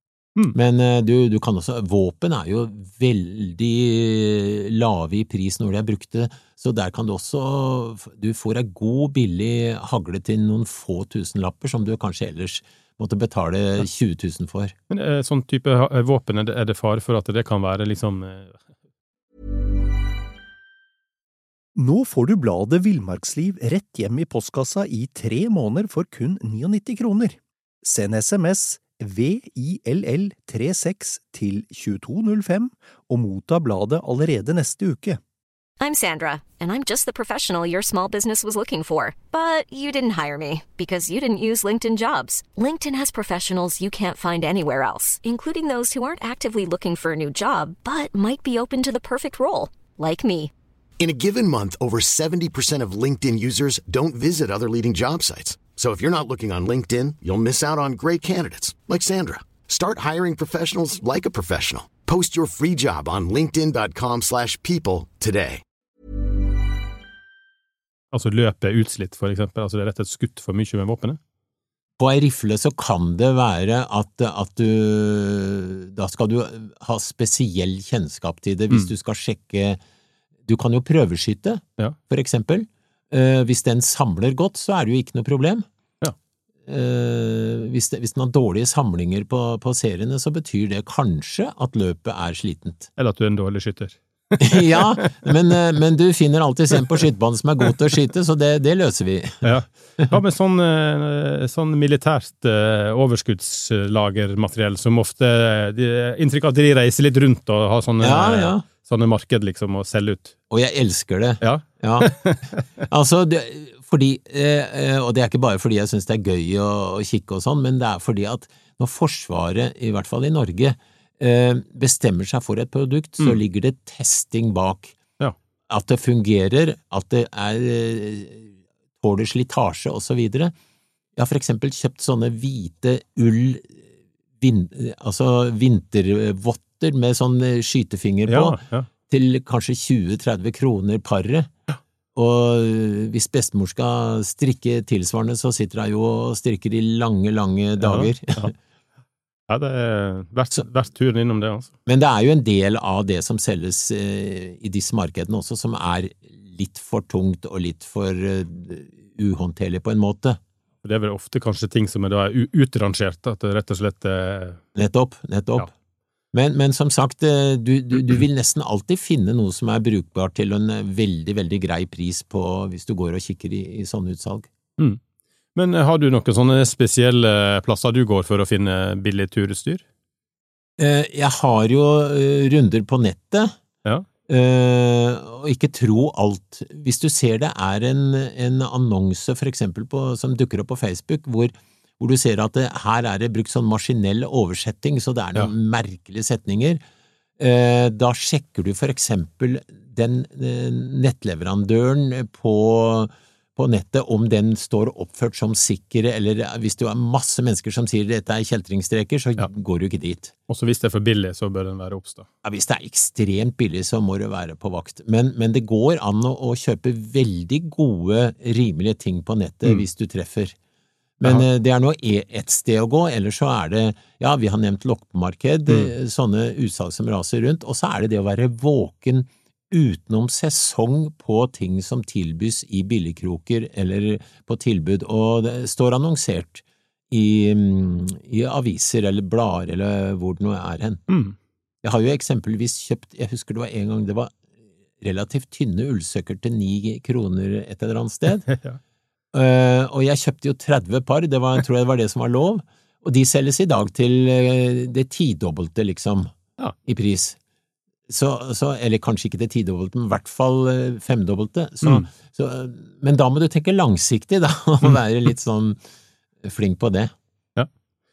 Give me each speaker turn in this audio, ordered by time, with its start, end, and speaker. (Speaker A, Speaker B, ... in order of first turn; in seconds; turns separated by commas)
Speaker A: 0.5-14.7, Speaker B: 14.9-18.6, Speaker C: 21.8-35.2, Speaker D: 35.8-50.5, Speaker E: 51.0-65.6, Speaker B: 68.1-71.2, Speaker A: 72.0-79.8, Speaker A: 80.4-85.7, Speaker A: 86.7-92.9, Speaker B: 93.0-95.2, Speaker A: 94.4-99.5, Speaker B: 99.4-110.3, Speaker A: 108.0-108.7, Speaker A: 110.5-112.2, Speaker B: 111.4-112.6, Speaker A: 112.9-125.0, Speaker A: 125.7-130.5, Speaker A: 131.2-133.8, Speaker A: 134.4-141.5, Speaker B: 138.3-138.9, Speaker A: 142.1-148.5, Speaker B: 147.8-148.5, Speaker B: 149.5-151.7, Speaker A: 151.8-160.4, Speaker B: 160.8-164.6, Speaker A: 164.8-165.7, Speaker A: 166.3-174.5, Speaker B: 175.5-179.8, Speaker A: 180.8-183.5, Speaker A: 184.3-196.8, Speaker A: 197.4-210.3, Speaker B: 210.5-212.3, Speaker A: 212.4-220.6, Speaker A: 221.2-241.0, Speaker B: 241.1-241.3, Speaker A: 241.8-244.4, Speaker A: 245.0-248.5, Speaker B: 248.5-248.8, Speaker A: 249.3-256.3, Speaker A: 256.8-257.4, Speaker A: 258.1-265.8, Speaker B: 261.8-262.1, Speaker A: 266.4-267.1